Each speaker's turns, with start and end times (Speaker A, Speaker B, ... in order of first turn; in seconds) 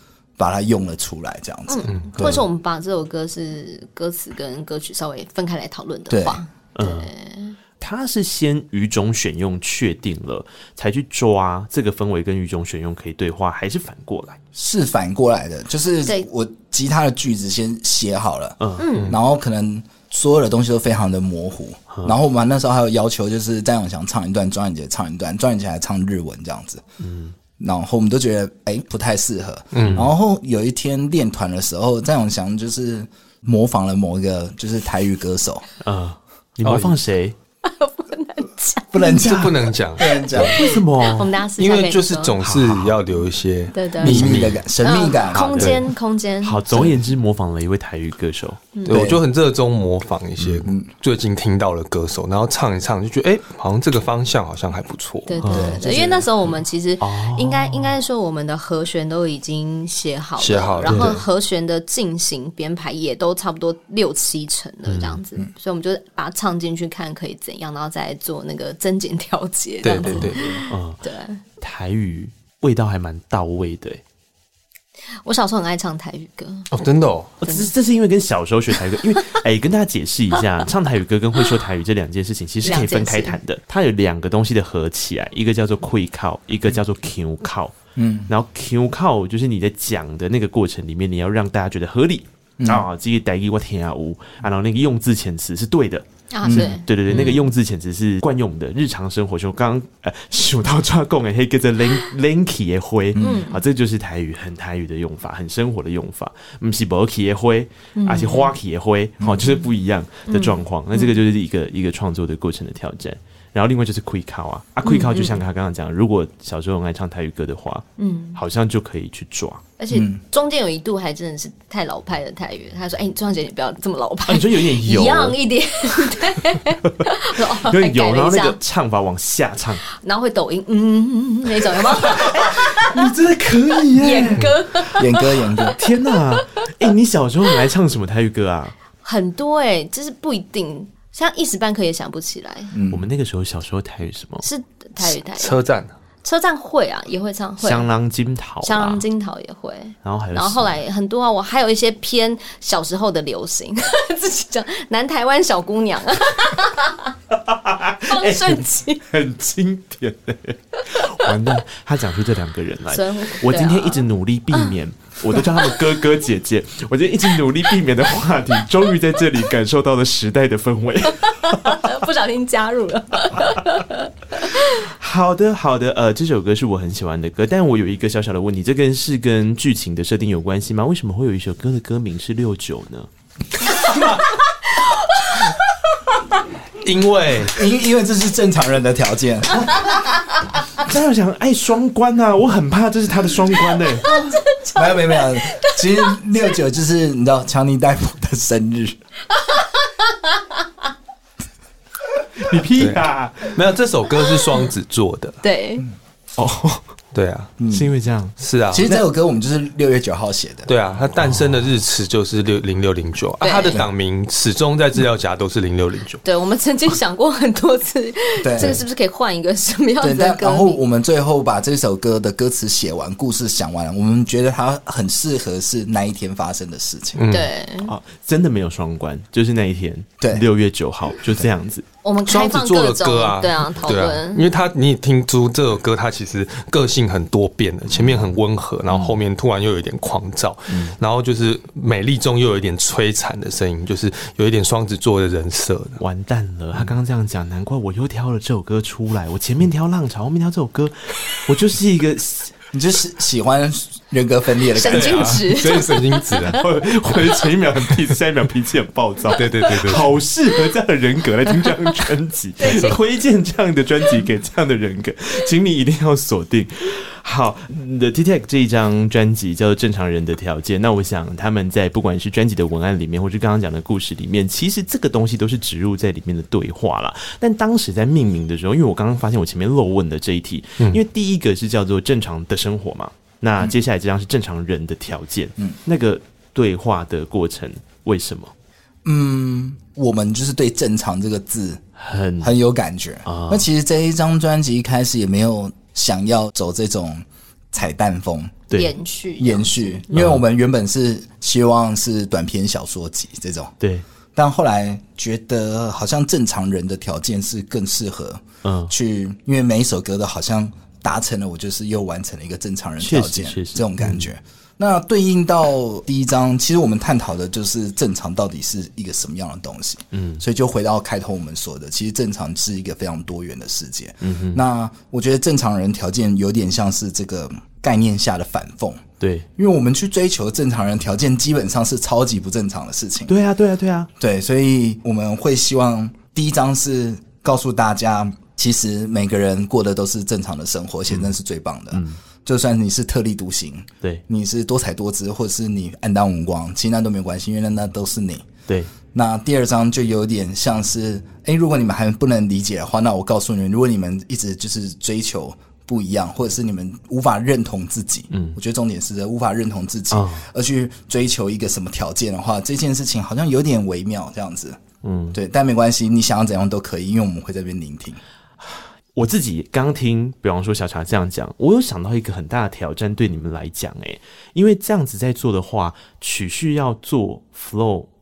Speaker A: 0.4-2.5, 6.1-6.4, 14.6-26.8, 27.6-35.6, 38.9-40.6, 44.0-45.8, 48.9-49.2, 50.6-50.9, 55.5-56.3, 70.0-70.4, 88.0-88.3, 92.6-92.9, 96.4-96.8, 103.1-103.5, 109.2-109.6, 119.9-120.2, 134.9-135.8, 142.7-143.1, 187.5-189.9, 194.7-199.0, 207.6-207.9, 208.7-210.7, 218.4-218.8, 220.0-227.2, 230.2-230.5, 231.2-231.5, 252.7-255.4, 289.0-291.8, 292.4-298.6, 299.4-303.7, 304.3-329.0, 329.6-333.3, 334.2-348.5, 349.1-364.8, 365.3-368.2
Speaker B: 1.7-7.6, 18.8-19.1, 37.6-39.3, 40.1-42.4, 43.7-44.3, 44.8-46.6, 48.7-49.0, 55.3-71.4, 75.2-76.7, 77.5-77.7, 82.6-83.4, 96.3-97.4, 103.2-103.6, 108.0-108.5, 110.3-111.1, 114.8-115.4, 118.0-118.4, 119.8-128.6, 129.9-133.1, 133.9-136.4, 139.0-142.7, 144.4-145.6, 146.2-147.9, 148.6-157.1, 158.1-159.0, 162.9-164.7, 165.4-165.7, 171.3-174.7, 184.7-185.5, 194.0-196.2, 205.4-205.9, 213.4-213.8, 216.2-220.8, 227.3-227.9, 232.0-234.5, 254.7-256.6, 262.6-263.0, 298.7-300.1
Speaker C: 6.8-7.1, 7.8-14.4, 18.6-18.9, 21.9-22.1, 27.0-27.3, 29.8-30.1, 35.8-37.4, 40.4-41.3, 42.4-43.0, 45.3-45.8, 46.4-48.6, 50.4-50.7, 55.4-55.8, 57.0-58.0, 64.9-65.2, 70.7-71.0, 71.6-74.0, 77.4-87.8, 88.3-119.6, 124.3-125.4, 127.3-129.8, 132.0-134.5, 135.7-138.7, 142.9-144.4, 147.6-149.0, 150.0-150.8, 157.3-171.8, 174.6-183.1, 190.8-194.1, 202.4-203.6, 206.4-206.8, 207.7-208.4, 227.8-231.8, 238.9-239.2, 240.7-240.9, 246.0-252.5, 256.5-288.5, 292.0-292.5, 293.3-293.7, 300.1-300.4, 303.8-304.1, 308.6-308.9, 313.0-314.3, 320.1-320.4, 324.2-324.6, 329.2-329.5, 333.3-334.1, 341.9-342.2, 358.3-358.6, 360.1-360.4, 365.0-365.4, 368.6-378.1
Speaker D: 29.7-30.1, 36.6-37.0, 39.1-40.6, 41.6-44.6, 48.8-55.6, 60.4-61.2, 69.8-70.6, 76.7-77.3, 145.0-145.9, 186.8-187.6, 202.8-205.4, 207.1-207.5, 208.4-209.0, 210.7-216.2, 227.2-227.5, 232.2-246.0, 254.8-256.6, 259.3-260.1, 262.6-262.9